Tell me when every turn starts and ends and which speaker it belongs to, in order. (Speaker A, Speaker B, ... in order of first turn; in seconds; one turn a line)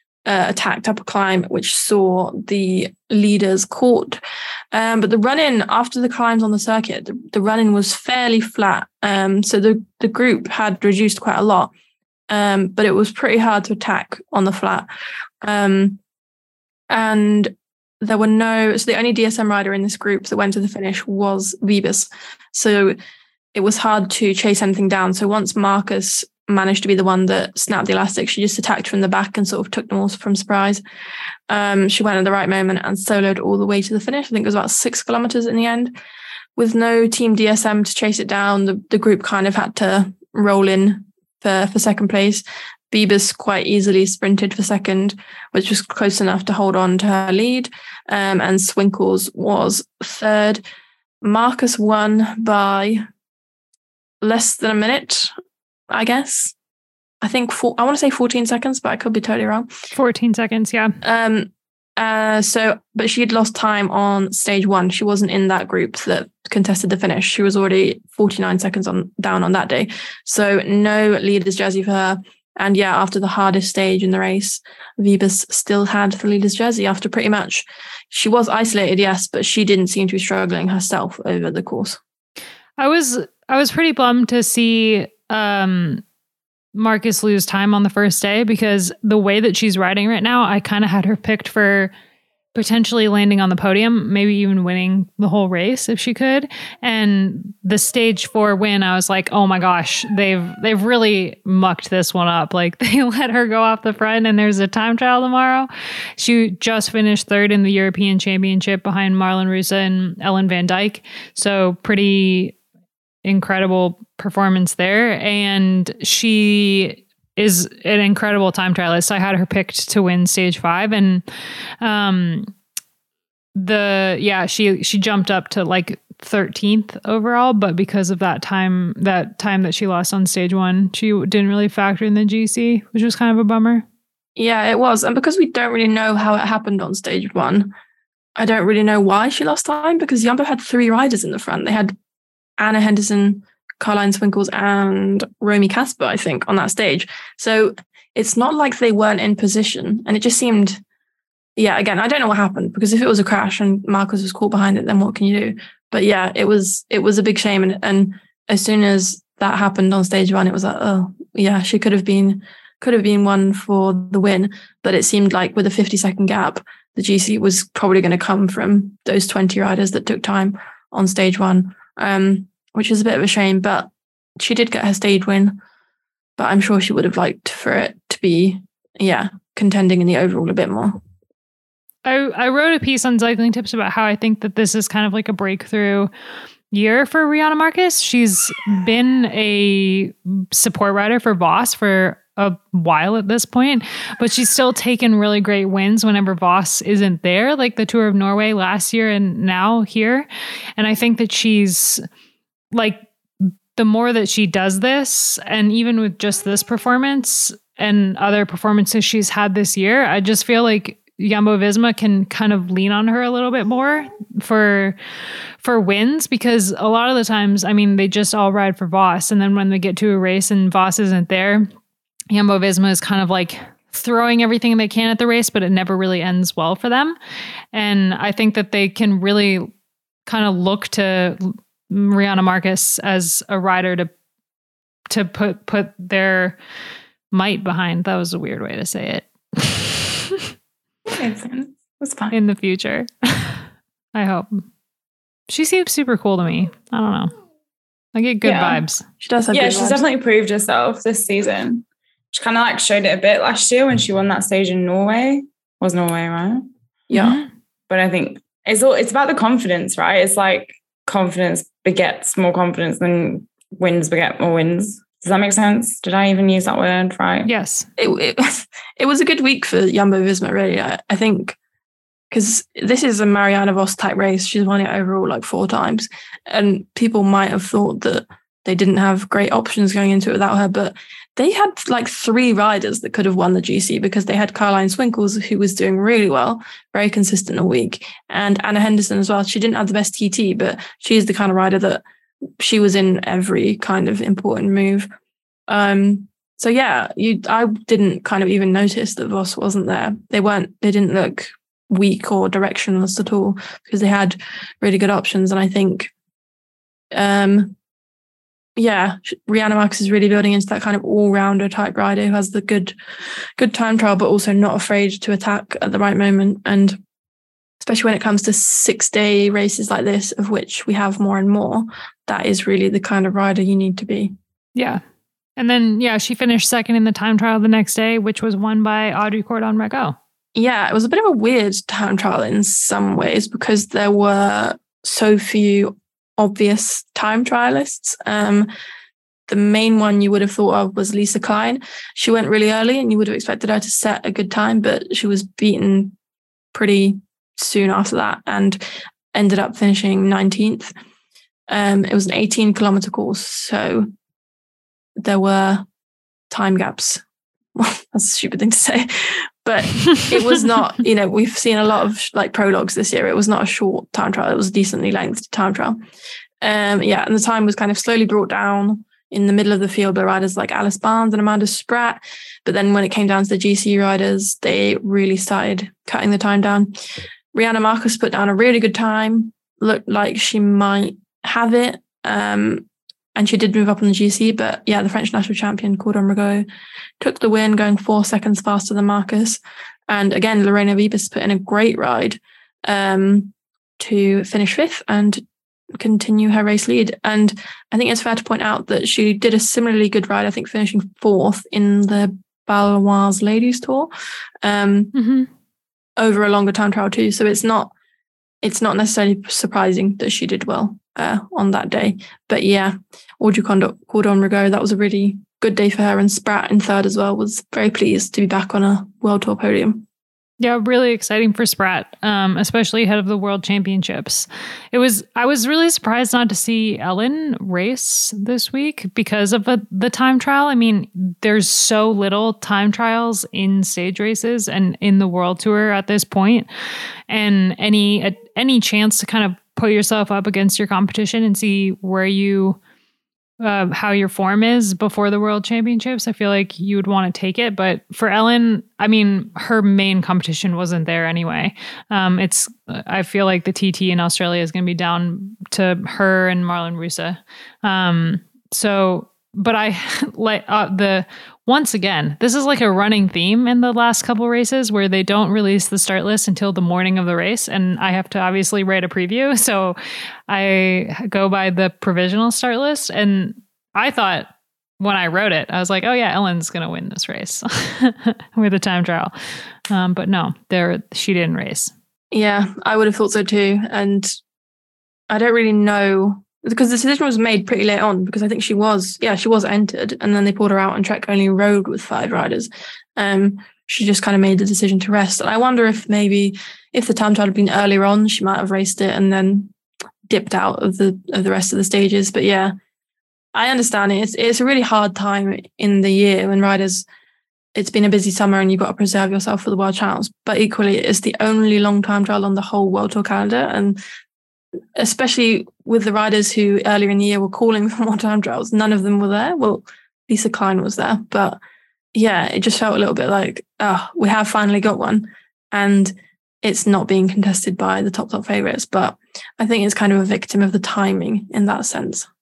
Speaker A: 0.3-4.2
Speaker A: 4.7-11.7
Speaker A: 12.3-14.9
Speaker A: 15.4-16.0
Speaker A: 16.9-23.0
Speaker A: 23.5-30.8
Speaker A: 31.5-35.9
Speaker A: 36.6-50.6
Speaker A: 51.2-53.1
Speaker A: 54.2-55.3
Speaker A: 55.9-56.5
Speaker A: 57.2-59.7
Speaker B: 59.9-61.0
Speaker A: 61.0-82.0
Speaker B: 82.8-86.0
Speaker B: 86.8-91.9
Speaker B: 92.5-112.6
Speaker B: 113.2-121.2
Speaker B: 121.8-122.5
Speaker B: 123.6-133.8
Speaker A: 134.4-137.7
Speaker A: 138.4-141.9
Speaker A: 142.6-150.8
Speaker A: 151.6-175.6
Speaker A: 176.4-181.0
Speaker B: 182.1-186.1
Speaker B: 186.7-200.3
Speaker B: 200.8-202.0
Speaker B: 202.7-215.0
Speaker B: 215.6-221.7
Speaker B: 222.3-227.2
Speaker B: 227.7-229.7
Speaker B: 230.3-234.1
Speaker B: 235.1-236.6
Speaker B: 237.3-240.4
Speaker C: 241.1-242.3
Speaker B: 242.3-244.7
Speaker B: 245.5-247.3
Speaker B: 248.2-249.0
Speaker C: 248.4-248.8
Speaker A: 249.2-250.0
Speaker C: 249.5-256.7
Speaker A: 257.1-257.4
Speaker B: 257.1-257.5
Speaker C: 257.9-267.5
Speaker B: 267.5-267.9
Speaker A: 268.0-271.6
Speaker A: 272.3-292.0
Speaker A: 292.6-295.1
Speaker A: 295.7-306.1
Speaker A: 307.1-307.8
Speaker A: 308.8-312.9
Speaker A: 313.6-317.0
Speaker A: 317.8-324.3
Speaker B: 324.8-325.0
Speaker B: 325.6-330.2
Speaker A: 330.6-338.7
Speaker A: 339.5-346.2
Speaker A: 346.7-348.8
Speaker A: 349.3-350.9
Speaker A: 351.7-354.1
Speaker A: 355.2-355.9
Speaker A: 356.5-357.2
Speaker A: 357.8-366.0
Speaker A: 366.6-377.0
Speaker A: 377.5-386.7
Speaker A: 387.2-404.1
Speaker A: 404.6-405.1
Speaker B: 405.1-405.5
Speaker A: 406.2-407.9
Speaker A: 408.6-420.1
Speaker B: 420.6-436.7
Speaker B: 437.3-442.8
Speaker B: 443.6-470.0
Speaker B: 470.5-479.3
Speaker B: 479.9-481.9
Speaker A: 482.3-484.3
Speaker A: 485.3-499.7
Speaker A: 500.3-502.7
Speaker A: 503.6-507.1
Speaker A: 507.8-514.0
Speaker A: 515.0-521.6
Speaker A: 522.1-532.3